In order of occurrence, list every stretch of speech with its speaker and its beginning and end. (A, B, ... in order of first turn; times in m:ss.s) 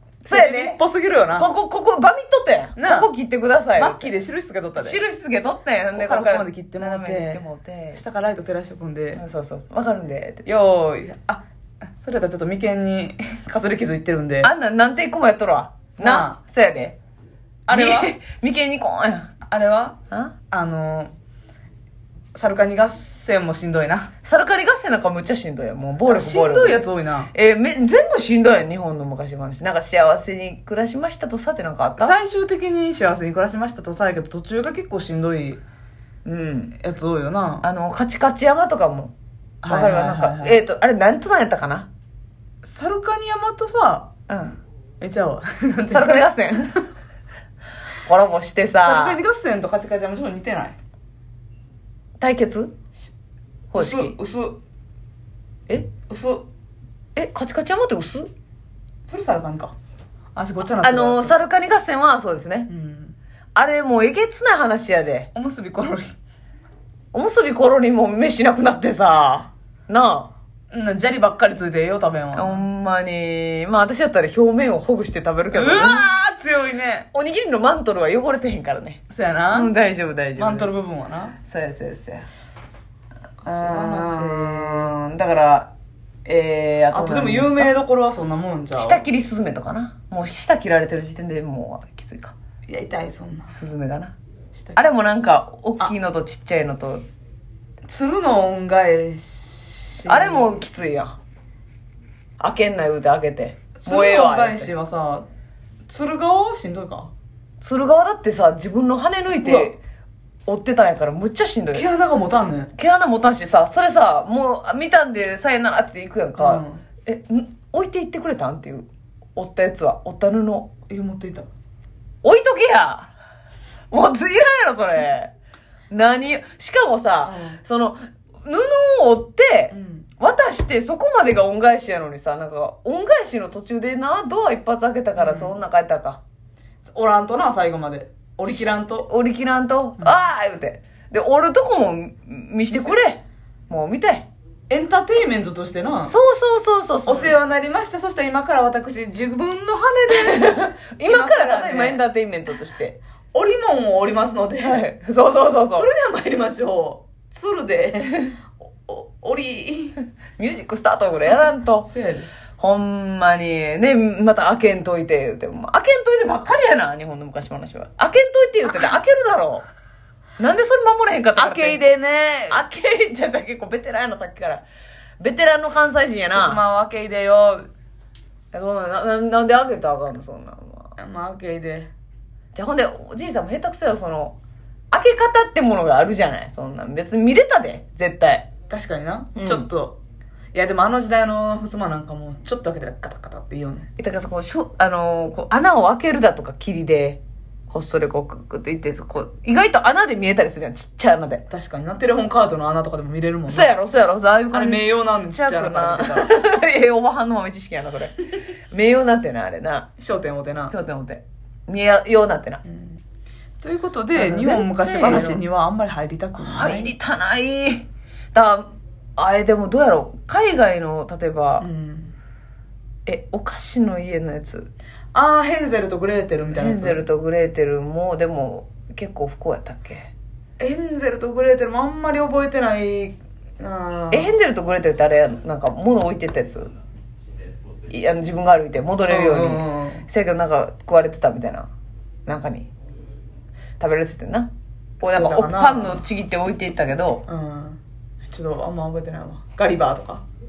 0:00.2-0:00.8 A
0:00.3-0:01.5 B
0:01.4-0:04.1 A
0:02.8-0:03.1 B
0:03.8-0:05.0 B
0:04.8-0:08.0 A
0:05.9-0:07.4 B
0:07.9-0:09.2 B
0:09.1-0:10.4 A
0:10.4-0:11.4 B
0:12.0-0:14.5 B
0:14.4-0:17.0 A
0:16.0-0:16.4 B
0:17.7-0:18.1 B
0:17.7-0:19.3 A
0:19.5-0:20.0 B
0:20.5-0:21.1 B
0:22.3-0:24.1 B
0:24.2-0:32.2 A
0:26.1-0:27.3 B
0:32.0-0:35.6 B
0:36.2-0:36.8 A
0:36.8-0:37.6 B
0:37.6-0:39.1 A
0:39.6-0:40.6 B
0:39.7-0:41.9 A
0:42.6-0:44.1 B
0:44.3-0:44.6 A
0:45.0-0:46.3 B
0:45.9-0:46.8 A
0:48.0-0:49.2 A
0:48.8-0:50.8 B
0:52.2-0:52.7 A
0:53.7-0:54.1 A
0:53.7-0:54.6 B
0:56.0-0:56.4 B
0:57.2-0:58.3 A
0:59.0-0:59.7 B
1:00.3-1:01.4 B
1:00.8-1:02.7 A
1:02.7-1:03.1 B
1:03.5-1:05.3 A
1:05.3-1:06.1 B
1:07.1-1:10.3 A
1:10.7-1:12.6 B
1:12.3-1:16.1 A
1:15.5-1:17.1 B
1:17.1-1:20.7 A
1:19.1-1:19.7 B
1:20.4-1:21.4 B
1:21.4-1:22.2 A
1:23.4-1:24.9 B
1:23.4-1:25.7 A
1:26.2-1:27.7 A
1:26.9-1:29.0 B
1:28.8-1:32.3 A
1:32.6-1:33.5 B
1:33.5-1:34.1 A
1:34.8-1:37.0 A
1:37.8-1:40.6 B
1:40.0-1:41.2 A
1:42.4-1:44.7 A
1:43.8-1:45.3 B
1:45.9-1:47.1 B
1:47.6-1:49.8 A
1:49.4-1:49.7 B
1:50.5-1:51.8 A
1:51.7-1:52.7 B
1:52.8-2:00.7 A
1:56.4-1:56.8 B
2:00.9-2:01.5 B
2:02.2-2:03.1 A
2:03.9-2:05.3 A
2:05.9-2:16.2 A
2:07.2-2:07.6 B
2:09.7-2:10.1 B
2:15.2-2:15.5 B
2:16.8-2:19.1 B
2:18.5-2:24.3 A
2:24.7-2:26.1 B
2:26.1-2:27.4 A
2:27.0-2:32.0 B
2:30.1-2:33.0 A
2:33.3-2:34.8 B
2:34.6-2:35.9 A
2:35.7-2:40.0 B
2:40.4-2:41.9 A
2:41.9-2:42.3 B
2:42.6-2:49.7 A
2:50.4-2:51.8 A
2:51.4-2:52.6 B
2:52.5-2:54.6 A
2:55.2-2:56.6 A
2:56.3-2:57.7 B
2:58.5-3:00.9 A
3:01.0-3:01.9 B
3:02.5-3:04.4 A
3:04.9-3:08.5 A
3:08.7-3:10.0 B
3:09.3-3:09.6 A
3:10.5-3:13.9 B
3:14.0-3:21.4 A
3:21.5-3:23.7 B
3:23.5-3:28.2 A
3:24.5-3:26.4 B
3:28.7-3:29.9 A
3:30.0-3:30.7 B
3:30.7-3:32.6 A
3:32.6-3:33.0 B
3:33.6-3:36.9 B
3:34.1-3:35.4 A
3:36.4-3:41.7 A
3:41.6-3:42.1 B
3:43.0-3:44.7 A
3:45.1-3:47.0 B
3:46.5-3:50.1 A
3:50.6-3:54.3 B
3:54.1-3:56.7 A
3:57.9-4:01.7 A
3:59.1-4:00.0 B
4:02.3-4:02.7 A
4:03.8-4:04.5 A
4:05.0-4:06.0 B
4:05.0-4:07.2 A
4:07.3-4:10.2 B